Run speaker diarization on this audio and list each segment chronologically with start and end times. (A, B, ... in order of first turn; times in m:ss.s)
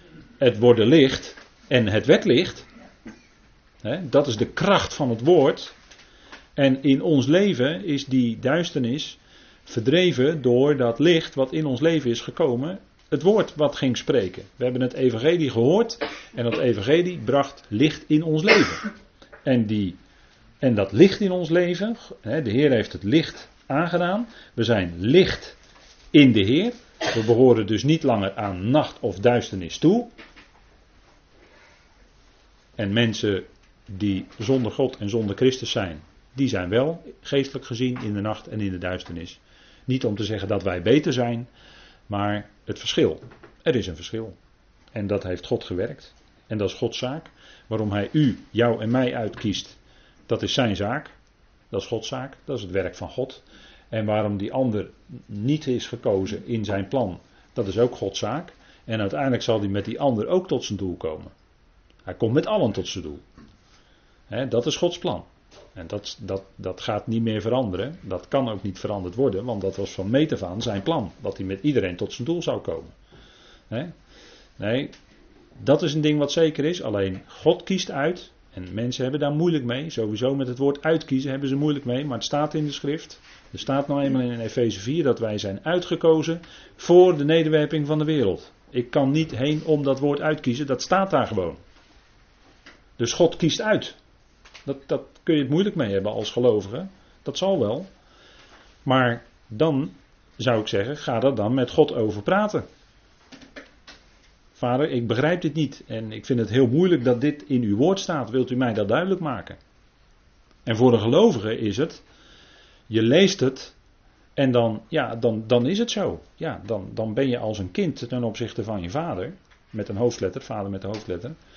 0:00.4-0:02.7 A
0:03.8-0:05.8 A
0:06.6-0:18.9 A
0:19.4-0:20.0 A
0:20.6-0:25.6 A
0:26.1-0:30.1 A
0:32.8-0:41.5 A
0:42.1-0:44.4 A
0:44.9-0:51.1 A
0:51.7-1:01.3 A
1:02.0-1:03.2 A
1:04.3-1:12.9 A
1:14.6-1:14.9 A
1:15.6-1:31.6 A
1:33.0-1:34.0 A
1:34.6-1:37.9 A
1:38.8-1:42.6 A
1:44.6-1:49.6 A
1:50.6-1:52.0 A
1:52.9-1:53.8 A
1:54.4-2:01.4 A